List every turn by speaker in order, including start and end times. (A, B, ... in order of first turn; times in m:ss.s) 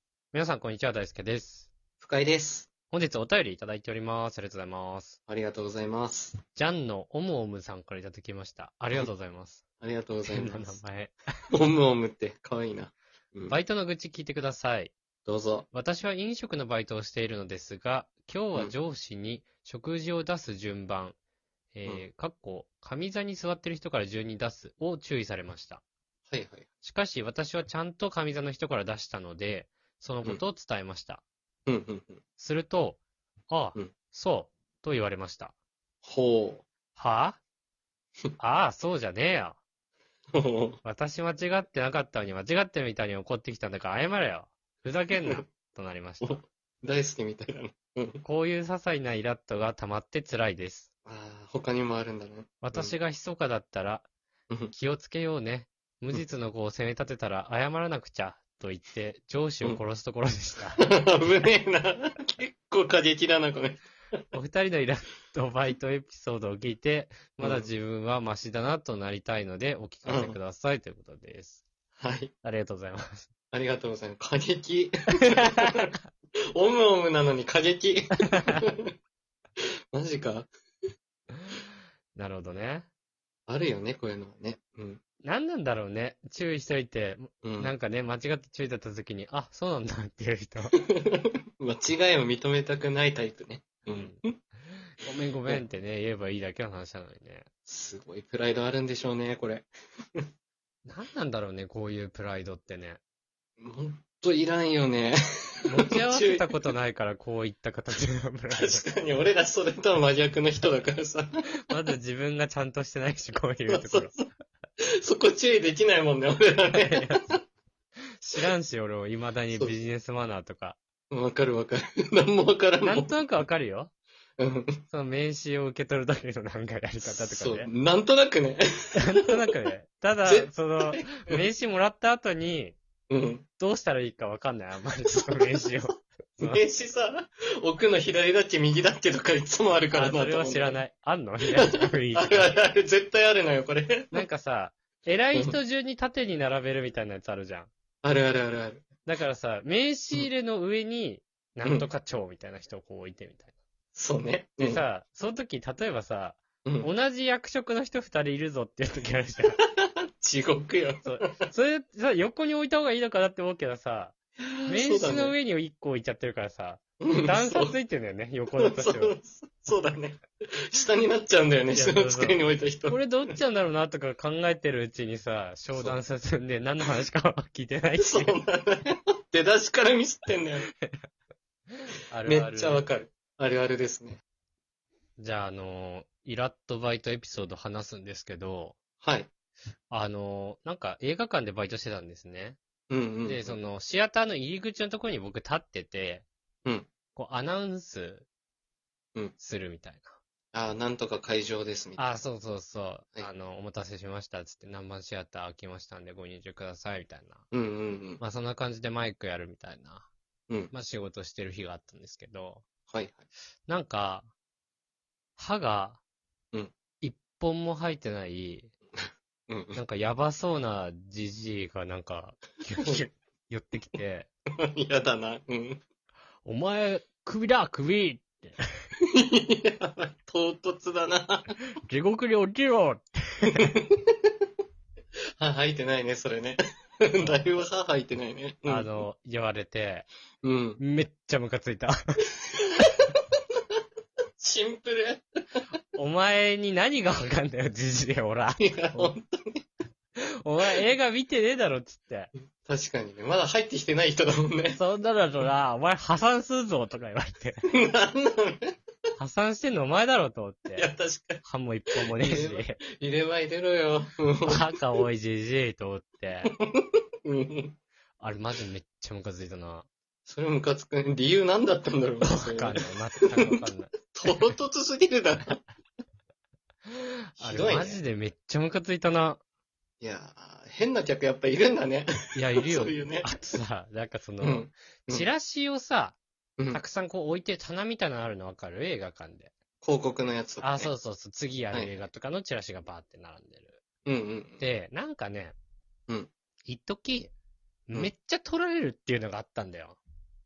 0:00.3-0:01.7 A
0:02.0-0:02.7 B
0:02.9-0:05.2 A
0:05.3-0:06.4 B
0:06.6-0:09.6 A
0:09.8-0:10.8 B
0:10.3-0:11.4 A
0:11.5-0:13.6 B
0:13.5-0:14.9 A
0:15.3-0:15.7 B
0:15.7-0:21.2 A
0:21.7-0:25.8 A
0:26.3-0:26.7 B
0:26.8-0:31.2 A
0:31.7-0:32.2 B
0:32.4-0:35.5 A
0:36.0-0:36.6 B
0:37.0-0:37.4 A
0:38.4-0:39.6 A
0:40.3-0:40.8 B
0:40.8-0:46.4 A
0:45.2-0:45.4 B
0:46.2-0:48.2 B
0:48.2-0:50.9 A
0:51.1-0:53.0 B
0:52.6-0:54.1 A
0:54.7-1:00.8 A
1:00.8-1:03.8 B
1:04.3-1:11.6 A
1:07.4-1:07.7 B
1:10.1-1:10.4 B
1:12.0-1:12.3 B
1:12.4-1:13.3 A
1:13.5-1:15.9 B
1:16.5-1:18.8 B
1:19.9-1:20.5 B
1:22.2-1:22.9 A
1:23.5-1:25.0 B
1:25.2-1:30.8 A
1:27.4-1:27.7 B
1:30.7-1:34.4 B
1:33.9-1:34.2 A
1:35.0-1:37.5 A
1:37.7-1:40.2 B
1:40.8-1:43.0 A
1:43.6-1:46.5 B
1:45.7-1:48.8 A
1:48.5-1:51.8 B
1:51.7-1:54.1 A
1:53.7-1:54.2 B
1:55.0-1:57.3 B
1:56.7-1:57.2 A
1:58.2-2:00.8 A
2:01.1-2:03.2 B
2:02.8-2:03.9 A
2:04.4-2:04.8 B
2:04.9-2:07.7 A
2:07.0-2:09.4 B
2:09.0-2:12.8 A
2:10.2-2:11.4 B
2:13.1-2:13.5 B
2:13.6-2:16.6 A
2:15.1-2:15.7 B
2:16.4-2:20.8 B
2:19.9-2:22.6 A
2:21.5-2:24.3 B
2:24.1-2:27.7 A
2:28.0-2:28.9 B
2:29.1-2:33.5 A
2:34.0-2:34.8 B
2:34.6-2:39.6 A
2:36.6-2:36.9 B
2:40.2-2:41.4 B
2:41.0-2:44.2 A
2:44.5-2:45.4 B
2:44.7-2:49.2 A
2:47.0-2:47.7 B
2:48.6-2:53.2 B
2:51.7-2:58.4 A
2:55.7-2:56.0 B
2:58.0-3:00.7 B
3:02.1-3:02.8 A
3:02.2-3:04.2 B
3:05.2-3:08.8 A
3:09.0-3:09.3 B
3:09.9-3:12.6 A
3:12.9-3:13.6 B
3:13.2-3:16.3 A
3:17.2-3:18.3 A
3:19.4-3:20.2 A
3:20.5-3:22.2 B
3:22.0-3:27.4 A
3:27.5-3:28.2 B
3:28.2-3:30.1 A
3:30.7-3:32.6 A
3:32.9-3:33.2 B
3:33.7-3:34.3 A
3:35.4-3:36.0 A
3:37.0-3:38.7 A
3:39.0-3:39.8 B
3:39.8-3:44.3 A
3:44.6-3:45.8 B
3:46.4-3:48.6 A
3:49.1-3:51.5 B
3:51.8-3:53.8 A
3:53.8-3:54.0 B
3:55.4-3:59.0 B
3:58.7-4:00.1 A
4:00.4-4:00.8 B
4:00.8-4:02.2 A
4:04.4-4:05.2 B
4:05.9-4:09.1 A
4:08.6-4:09.7 B
4:10.4-4:12.3 A
4:12.6-4:14.8 B
4:14.8-4:17.6 A
4:17.7-4:18.8 B
4:19.2-4:20.9 A
4:20.8-4:21.4 B
4:21.4-4:22.8 A
4:22.0-4:24.8 B
4:24.5-4:26.5 A
4:26.5-4:27.8 B
4:28.2-4:29.9 A
4:30.3-4:32.8 B
4:32.2-4:34.5 A
4:34.1-4:35.6 B
4:36.9-4:39.4 A
4:37.4-4:38.0 B
4:40.0-4:43.4 B
4:42.4-4:46.2 A
4:44.4-4:45.3 B
4:46.7-4:49.5 A
4:49.8-4:50.9 B
4:50.6-4:53.8 A
4:51.7-4:52.0 B
4:54.1-4:54.7 B
4:54.6-4:55.6 A
4:56.7-4:57.3 A
4:57.9-5:00.0 A